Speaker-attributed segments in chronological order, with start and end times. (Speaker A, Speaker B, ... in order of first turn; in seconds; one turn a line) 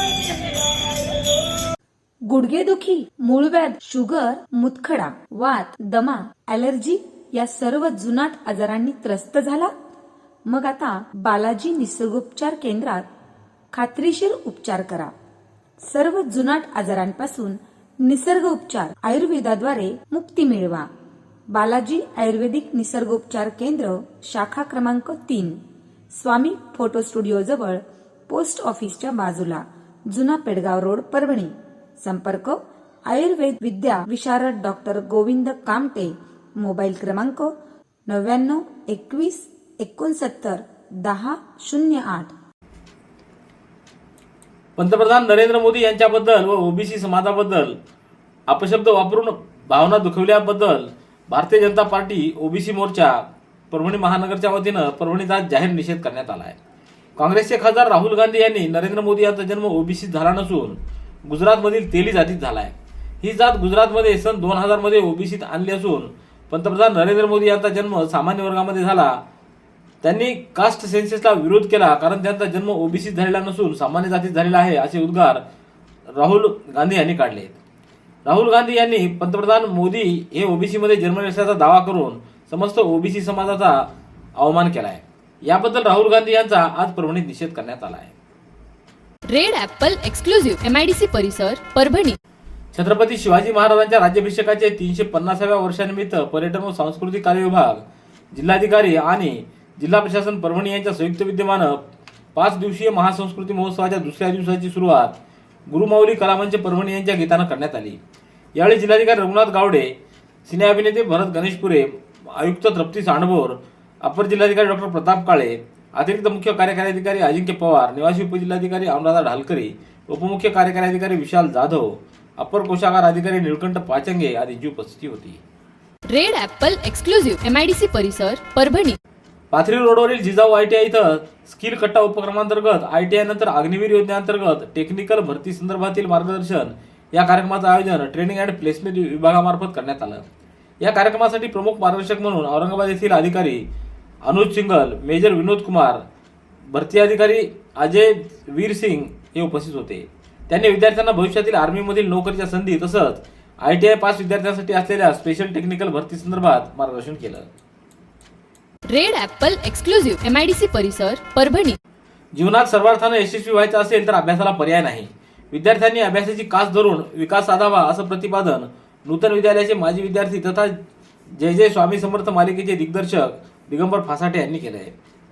Speaker A: 2.3-9.7
Speaker A: 10.5-13.1
Speaker A: 13.7-15.1
Speaker A: 15.9-20.9
Speaker A: 21.5-25.6
Speaker A: 26.1-37.5
Speaker A: 38.1-42.3
Speaker B: 44.8-47.8
Speaker B: 48.5-56.6
Speaker B: 57.2-69.2
Speaker B: 70.0-75.4
Speaker B: 76.1-77.6
Speaker B: 78.2-88.1
Speaker C: 89.3-92.2
Speaker B: 92.7-101.8
Speaker B: 102.3-105.2
Speaker B: 105.7-108.0
Speaker B: 108.6-125.4
Speaker C: 126.1-129.0
Speaker B: 129.5-140.2
Speaker B: 140.8-143.7
Speaker B: 144.2-146.0
Speaker B: 146.7-157.5
Speaker C: 158.9-161.8
Speaker B: 162.3-170.8
Speaker B: 171.4-174.9